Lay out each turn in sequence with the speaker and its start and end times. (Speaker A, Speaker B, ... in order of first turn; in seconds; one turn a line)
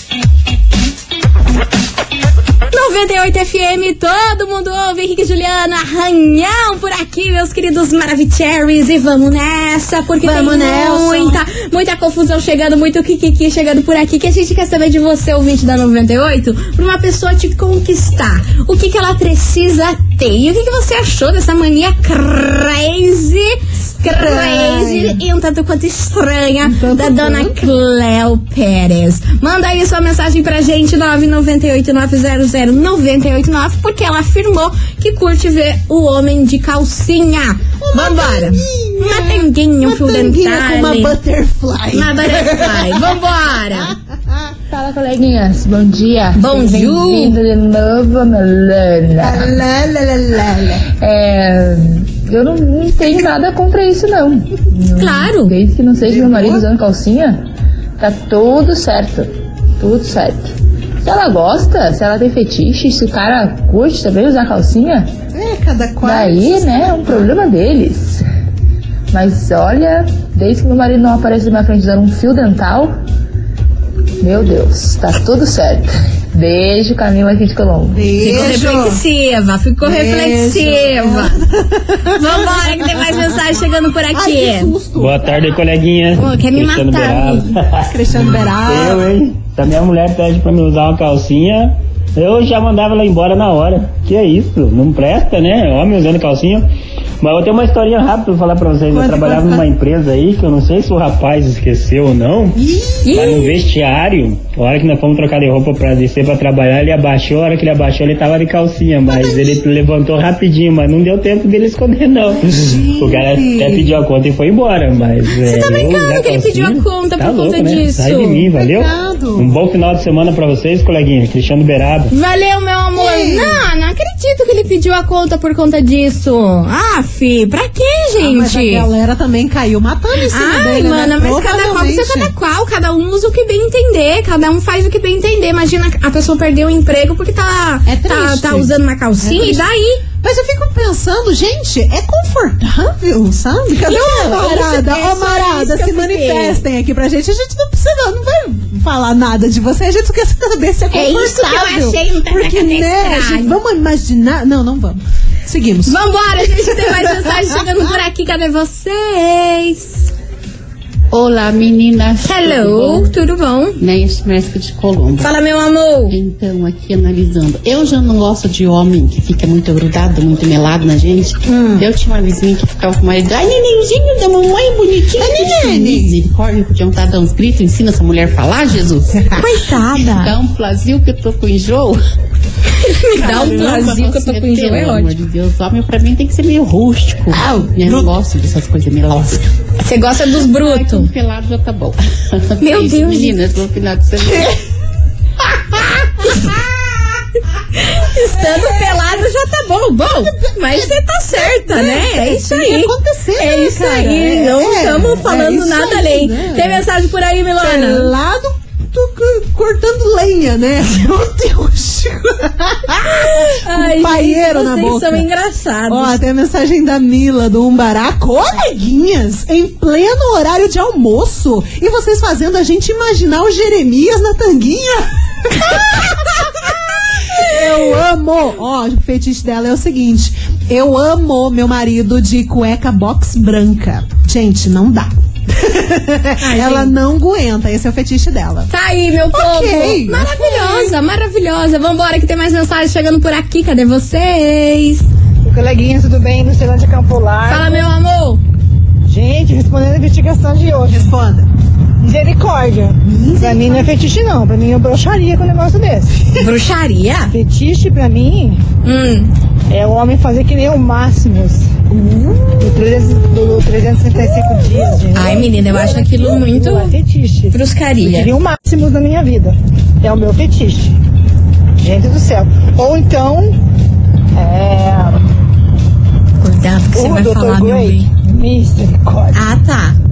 Speaker A: 2.7-41.2
Speaker B: 10.2-11.4
Speaker B: 24.0-25.2
Speaker B: 26.6-27.7
Speaker B: 37.8-43.2
Speaker A: 41.9-44.0
Speaker B: 43.8-44.4
Speaker C: 44.7-49.6
Speaker A: 46.4-47.4
Speaker B: 49.2-50.9
Speaker C: 51.0-57.5
Speaker A: 55.0-55.5
Speaker B: 56.0-56.7
Speaker C: 58.0-65.1
Speaker B: 65.3-67.1
Speaker C: 66.0-68.2
Speaker C: 69.1-72.9
Speaker C: 74.2-78.1
Speaker B: 77.9-79.0
Speaker A: 78.2-81.4
Speaker B: 79.8-83.4
Speaker A: 82.1-84.7
Speaker B: 84.1-85.6
Speaker D: 85.0-96.7
Speaker A: 86.2-87.5
Speaker B: 87.9-89.1
Speaker D: 97.2-122.1
Speaker B: 98.9-99.7
Speaker B: 102.6-103.1
Speaker A: 103.0-103.5
Speaker B: 112.5-114.0
Speaker A: 115.3-118.5
Speaker B: 118.6-119.5
Speaker A: 122.1-128.9
Speaker B: 123.0-123.6
Speaker B: 128.2-132.3
Speaker A: 130.2-140.0
Speaker B: 137.9-139.7
Speaker B: 140.2-156.0
Speaker A: 143.9-146.6
Speaker A: 150.9-153.6
Speaker A: 155.9-160.1
Speaker B: 156.7-157.6
Speaker E: 161.1-163.2
Speaker A: 162.2-163.8
Speaker E: 163.8-165.3
Speaker A: 165.2-166.2
Speaker E: 166.1-179.4
Speaker B: 171.5-171.9
Speaker B: 175.2-176.2
Speaker B: 179.2-179.5
Speaker A: 179.4-180.3
Speaker E: 180.0-182.0
Speaker A: 182.8-185.1
Speaker E: 183.1-189.4
Speaker B: 183.2-184.0
Speaker B: 187.3-188.1
Speaker A: 189.8-191.1
Speaker E: 190.4-194.5
Speaker A: 192.6-193.4
Speaker B: 194.2-194.6
Speaker B: 195.6-196.9
Speaker A: 197.8-208.1
Speaker B: 198.4-199.1
Speaker B: 200.2-206.8
Speaker B: 207.6-215.3
Speaker A: 213.0-216.2
Speaker B: 215.9-226.5
Speaker B: 227.4-238.7
Speaker A: 236.4-237.0
Speaker A: 238.7-245.1
Speaker B: 239.3-241.0
Speaker F: 245.4-247.9
Speaker A: 247.5-248.4
Speaker F: 249.1-251.0
Speaker B: 250.9-251.5
Speaker F: 252.0-256.3
Speaker B: 253.0-253.9
Speaker A: 256.4-257.3
Speaker F: 257.3-258.6
Speaker A: 258.9-259.3
Speaker F: 259.7-271.0
Speaker A: 265.1-266.9
Speaker A: 267.5-268.3
Speaker F: 271.8-273.6
Speaker F: 274.4-275.3
Speaker A: 276.4-278.1
Speaker F: 276.9-279.4
Speaker A: 279.3-280.0